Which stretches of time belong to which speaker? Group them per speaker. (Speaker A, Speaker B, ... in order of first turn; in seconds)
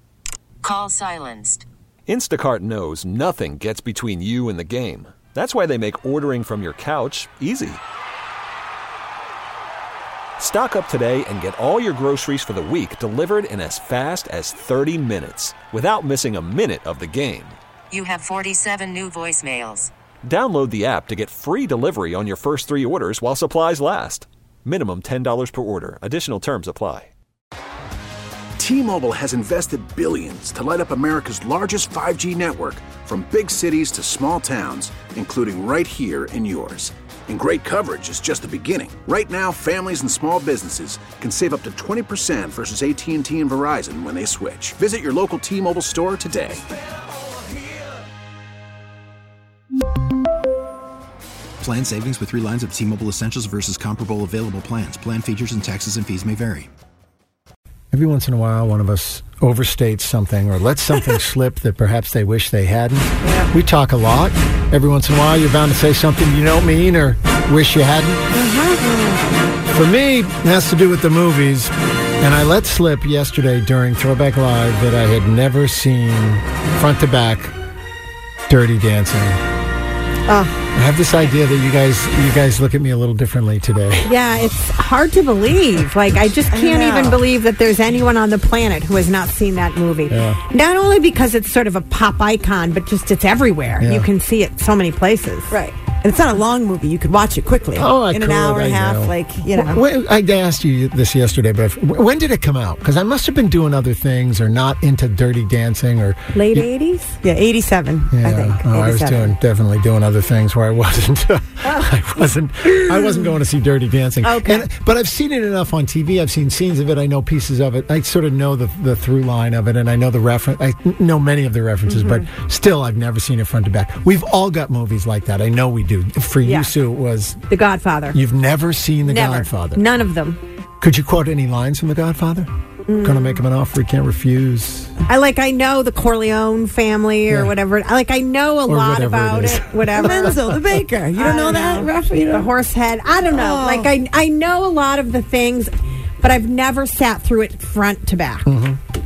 Speaker A: 0.6-1.6, 17.9-19.9
Speaker B: 2.1-7.8, 10.4-17.6, 20.2-27.1
Speaker C: 28.6-46.6
Speaker D: 51.6-56.7
Speaker E: 57.9-68.2, 69.7-77.5, 78.5-79.4, 80.7-84.2, 90.1-90.4, 93.8-94.1, 97.8-106.7, 108.1-127.4, 128.1-129.8, 130.8-134.9, 137.3-137.6, 138.7-140.7, 148.4-148.8
Speaker F: 68.3-69.1, 84.0-95.5, 106.3-107.2, 114.2-114.7, 121.9-122.2, 126.4-126.7, 127.5-128.2, 129.0-130.4, 132.9-133.4, 135.1-140.4, 141.2-148.4
Speaker G: 86.5-87.2, 95.5-99.8, 107.2-109.3, 140.0-142.5, 143.3-143.9